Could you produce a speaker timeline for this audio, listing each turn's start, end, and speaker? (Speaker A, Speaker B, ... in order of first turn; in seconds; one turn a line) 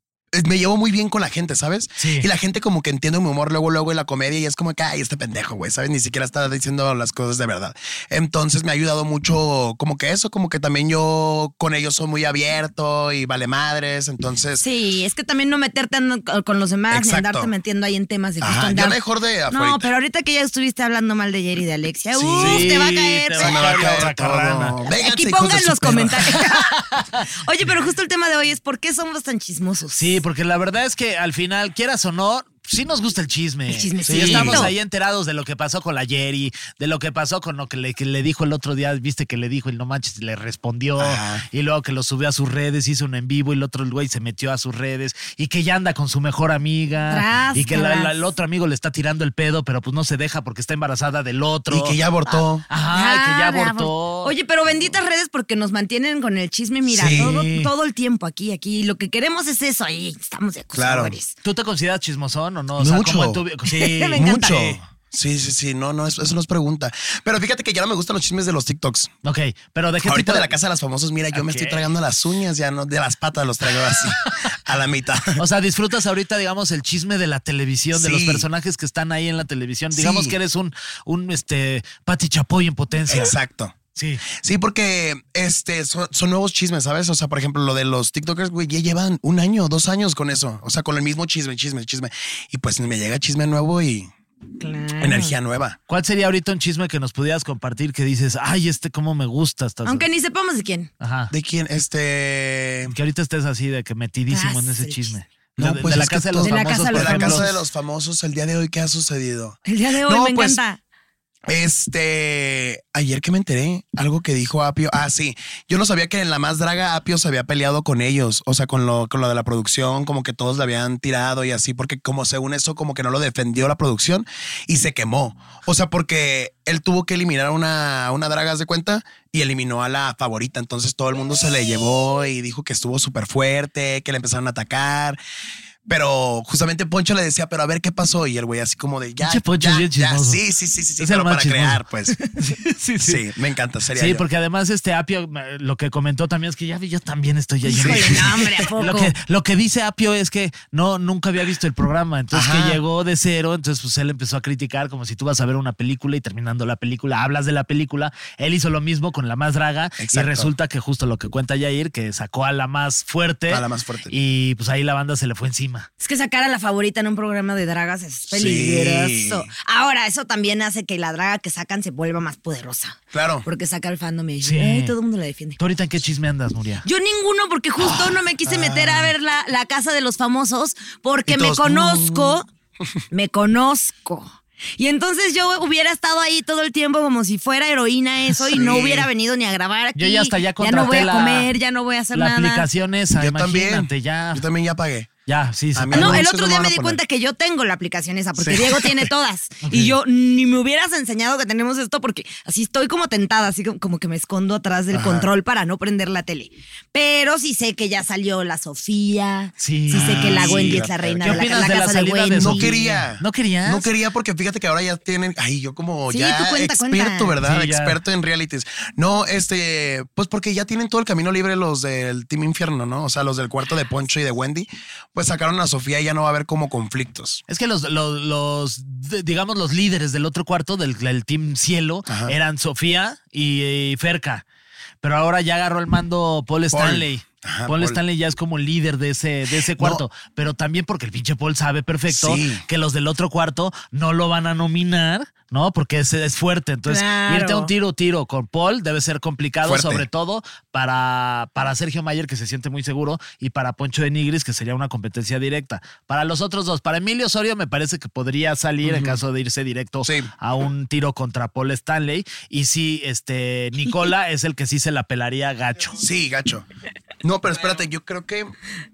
Speaker A: 0.3-14.7
Speaker B: 2.0-2.3
Speaker C: 14.6-19.0
Speaker A: 16.9-17.5
Speaker A: 18.4-19.9
Speaker C: 19.5-23.9
Speaker A: 22.2-26.3
Speaker B: 22.4-24.8
Speaker C: 24.9-26.8
Speaker B: 26.4-27.2
Speaker C: 27.3-30.2
Speaker B: 29.9-52.0
Speaker C: 33.7-34.7
Speaker A: 34.0-34.7
Speaker A: 41.0-41.5
Speaker C: 47.1-48.1
Speaker A: 51.7-52.6
Speaker C: 52.3-61.3
Speaker B: 52.7-54.3
Speaker A: 56.9-57.4
Speaker B: 57.1-57.7
Speaker A: 60.8-61.2
Speaker B: 61.4-64.8
Speaker A: 62.8-63.4
Speaker C: 63.7-64.6
Speaker A: 64.2-69.1
Speaker B: 69.2-70.5
Speaker A: 70.0-75.4
Speaker B: 71.3-71.9
Speaker B: 75.4-83.3
Speaker A: 77.9-78.5
Speaker A: 79.9-80.4
Speaker A: 83.1-83.8
Speaker B: 84.0-84.2
Speaker A: 84.3-94.1
Speaker C: 94.6-95.4
Speaker A: 95.0-95.8
Speaker B: 95.9-100.1
Speaker C: 99.8-100.9
Speaker B: 101.0-101.3
Speaker A: 101.3-102.9
Speaker B: 102.9-107.5
Speaker C: 104.3-105.2
Speaker A: 105.6-110.6
Speaker C: 106.4-107.6
Speaker C: 109.7-110.8
Speaker A: 111.5-135.2
Speaker A: 135.9-142.2
Speaker B: 139.2-140.4
Speaker B: 141.0-141.8
Speaker B: 142.4-143.2
Speaker A: 143.0-144.2
Speaker B: 143.9-165.9
Speaker C: 147.7-149.2
Speaker A: 147.8-148.2
Speaker A: 152.3-152.8
Speaker A: 160.0-160.5
Speaker A: 163.5-164.1
Speaker C: 166.0-175.6
Speaker A: 168.3-169.5
Speaker A: 173.1-173.5
Speaker B: 174.4-174.9
Speaker B: 175.6-176.8
Speaker C: 176.8-182.5
Speaker A: 178.4-179.1
Speaker A: 181.3-183.0
Speaker C: 183.1-192.7
Speaker A: 188.5-189.1
Speaker B: 190.0-191.5
Speaker B: 192.1-194.4
Speaker A: 193.2-195.1
Speaker B: 195.3-196.3
Speaker A: 195.8-197.0
Speaker C: 195.9-212.7
Speaker A: 198.4-199.1
Speaker B: 199.6-200.0
Speaker A: 204.9-205.3
Speaker B: 209.6-213.9
Speaker A: 209.9-211.8
Speaker A: 212.4-227.4
Speaker C: 216.1-217.3
Speaker B: 217.4-218.0
Speaker B: 227.5-234.4
Speaker A: 232.1-232.3
Speaker B: 235.0-266.0
Speaker A: 236.7-238.0
Speaker A: 239.8-240.0
Speaker A: 242.1-242.7
Speaker C: 246.9-247.7
Speaker A: 249.6-250.1
Speaker A: 258.8-259.2
Speaker A: 260.0-260.3
Speaker A: 266.0-266.7
Speaker A: 267.2-268.5